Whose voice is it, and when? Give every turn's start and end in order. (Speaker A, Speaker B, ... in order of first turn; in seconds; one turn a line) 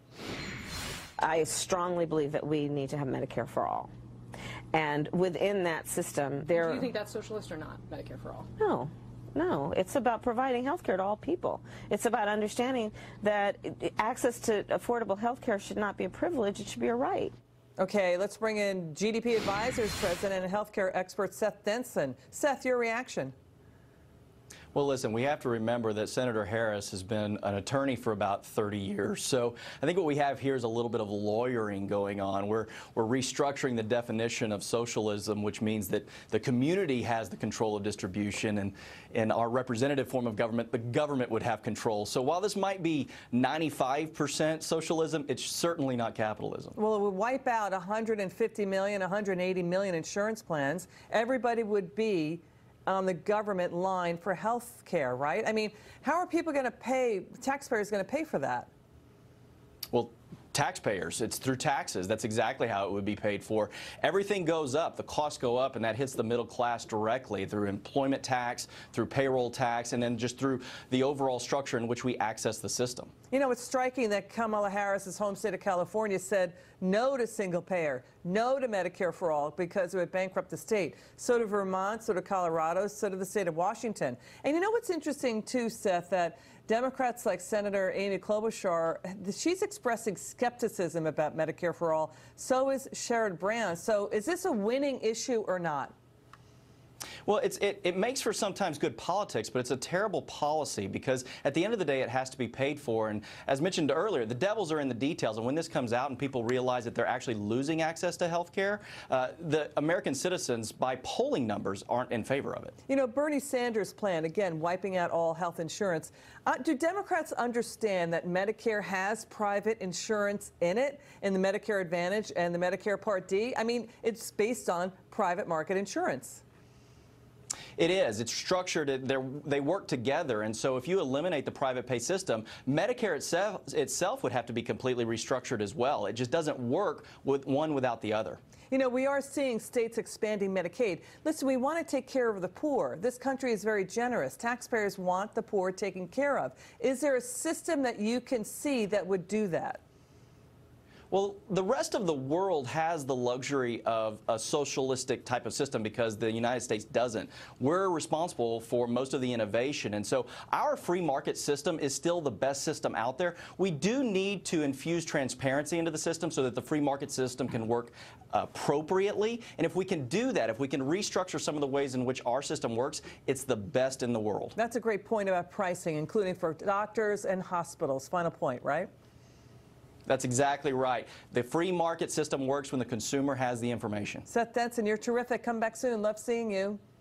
Speaker A: 1.2-3.9
Speaker A: 4.7-6.9
Speaker B: 6.5-8.5
Speaker A: 8.6-17.3
Speaker C: 17.8-23.3
Speaker D: 24.7-46.8
Speaker C: 46.8-58.7
Speaker D: 59.9-73.1
Speaker C: 73.3-95.9
Speaker D: 97.2-112.8
Speaker C: 112.9-126.4
Speaker D: 127.8-138.4
Speaker C: 138.7-149.8
Speaker D: 151.1-174.6
Speaker C: 174.6-178.9
Speaker D: 180.1-184.2
Speaker C: 184.3-186.8